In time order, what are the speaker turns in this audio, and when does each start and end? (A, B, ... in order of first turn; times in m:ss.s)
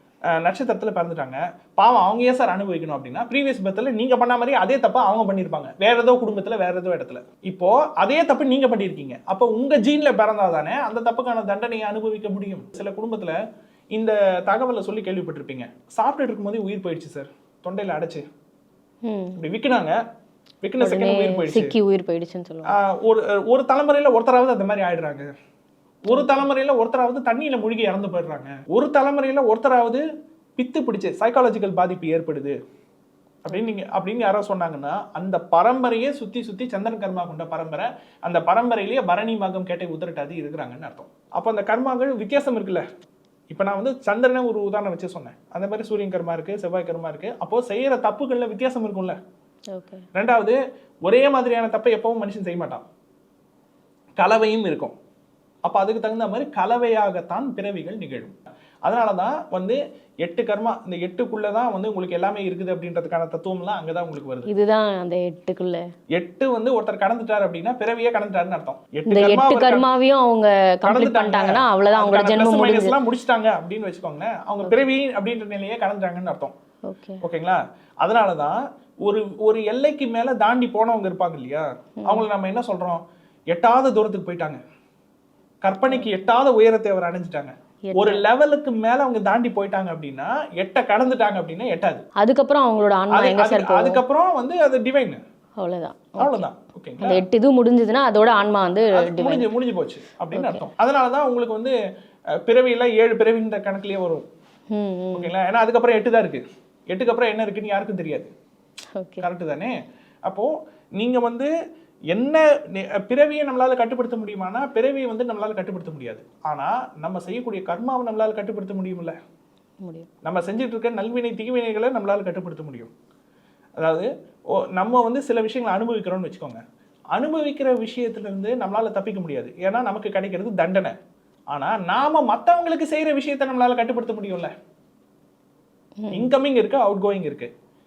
0:00.4-0:13.4 A
0:13.9-0:18.2 A
0:19.0-0:19.4 B
0:19.4-0:20.0 A
0:20.6-0:21.8 A
0:20.8-0:22.7 B
0:22.7-0:25.3 A
0:26.1-0:30.0 A
0:26.1-0:26.4 B
0:30.6-0:32.6 A
0:33.4-0:42.8 A
0:43.5-0:49.2 A
0:49.7-0:50.1 B
0:50.2-0:52.9 A
0:54.2-0:54.9 A
0:55.7-1:04.5 A
1:04.5-1:05.9 B
1:06.1-1:09.9 A
1:09.1-1:13.0 B
1:10.9-1:16.5 A
1:16.9-1:17.2 B
1:17.2-1:24.6 A
1:25.6-1:32.0 A
1:27.9-1:28.2 B
1:32.2-1:34.0 B
1:33.1-1:35.2 A
1:35.6-1:36.5 B
1:36.2-1:37.2 A
1:37.0-1:39.5 B
1:38.9-1:41.7 A
1:40.3-1:40.6 B
1:42.4-1:44.2 A
1:44.7-1:45.3 B
1:45.1-1:48.3 A
1:49.0-1:49.2 B
1:49.2-1:49.7 A
1:50.3-1:51.5 A
1:52.1-1:59.2 A
1:59.8-2:00.1 B
2:00.2-2:02.9 A
2:03.8-2:06.6 A
2:07.1-2:11.0 A
2:11.5-2:14.5 A
2:16.0-2:16.3 B
2:16.1-2:17.5 A